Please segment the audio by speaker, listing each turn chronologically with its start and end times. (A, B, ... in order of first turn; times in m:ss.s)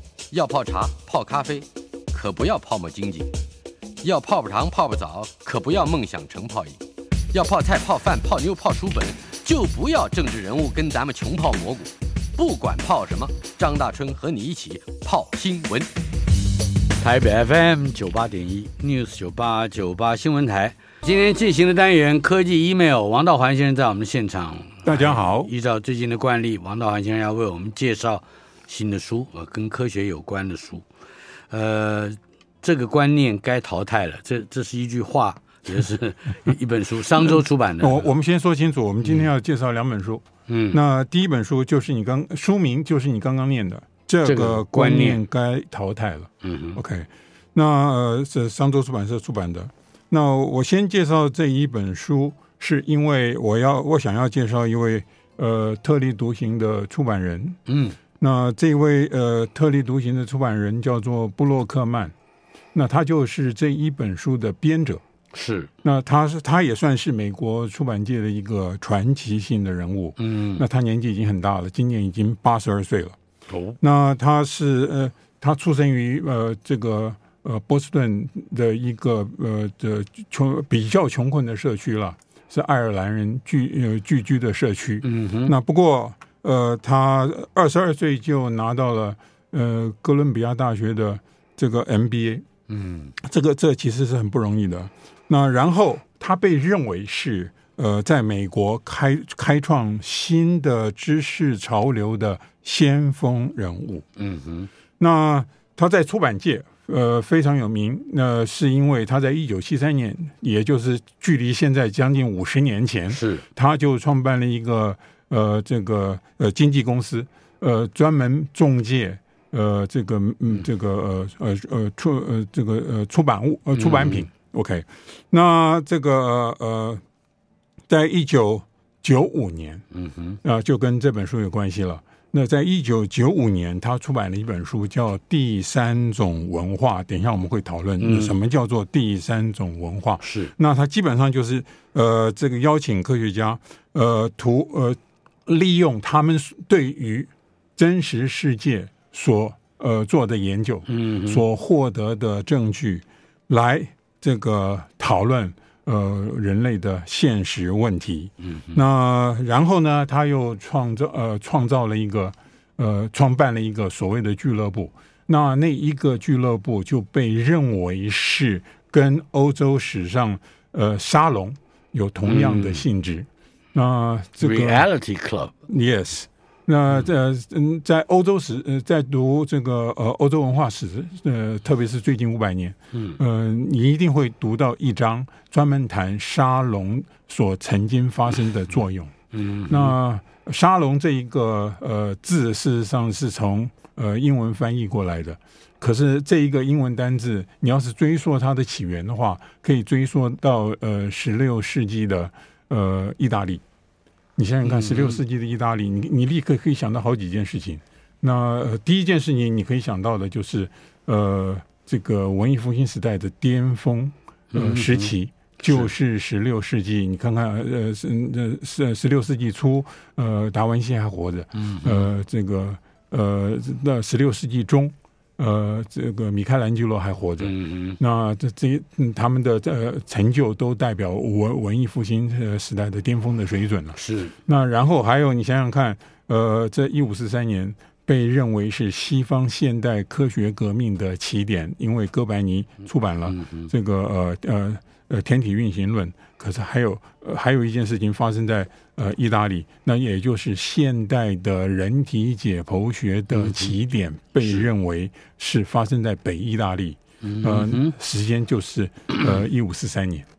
0:00.3-0:03.3 A
0:04.0-0:06.8 A
0:07.3-0:15.9 A
0:17.0-0:30.8 B
0:24.8-0:25.5 C
0:31.5-0:38.1 B
0:37.2-0:57.6 C
0:40.5-0:40.8 B
0:44.2-0:45.2 B
0:46.4-0:46.8 B
0:57.7-0:58.0 B
0:58.2-1:02.1 C
1:02.7-1:05.0 C
1:05.3-1:05.7 B
1:05.8-1:13.2 C
1:10.2-1:10.6 B
1:13.5-1:13.8 B
1:13.8-1:32.4 C
1:25.0-1:25.5 B
1:32.7-1:33.1 B
1:33.2-1:44.0 C
1:44.2-1:44.7 B
1:45.0-2:07.0 C
1:53.1-1:53.4 B
2:03.7-2:04.2 B
2:07.9-2:09.8 C
2:09.9-2:10.4 B
2:10.4-2:54.9 C
2:18.0-2:18.3 B
2:20.2-2:20.5 B
2:30.9-2:31.4 B
2:38.4-2:38.8 B
2:52.2-2:52.8 B
2:54.4-2:55.5 B
2:55.7-3:09.1 C
3:02.9-3:03.2 B
3:09.3-3:10.0 B
3:09.7-3:23.6 C
3:24.4-4:20.3 C
3:24.6-3:25.2 B
3:34.5-3:35.1 B
3:35.6-3:35.9 B
3:41.6-3:42.0 B
3:47.4-3:48.0 B
3:54.0-3:54.3 B
4:03.2-4:03.7 B
4:13.3-4:13.7 B
4:17.2-4:18.0 B
4:19.1-4:19.4 B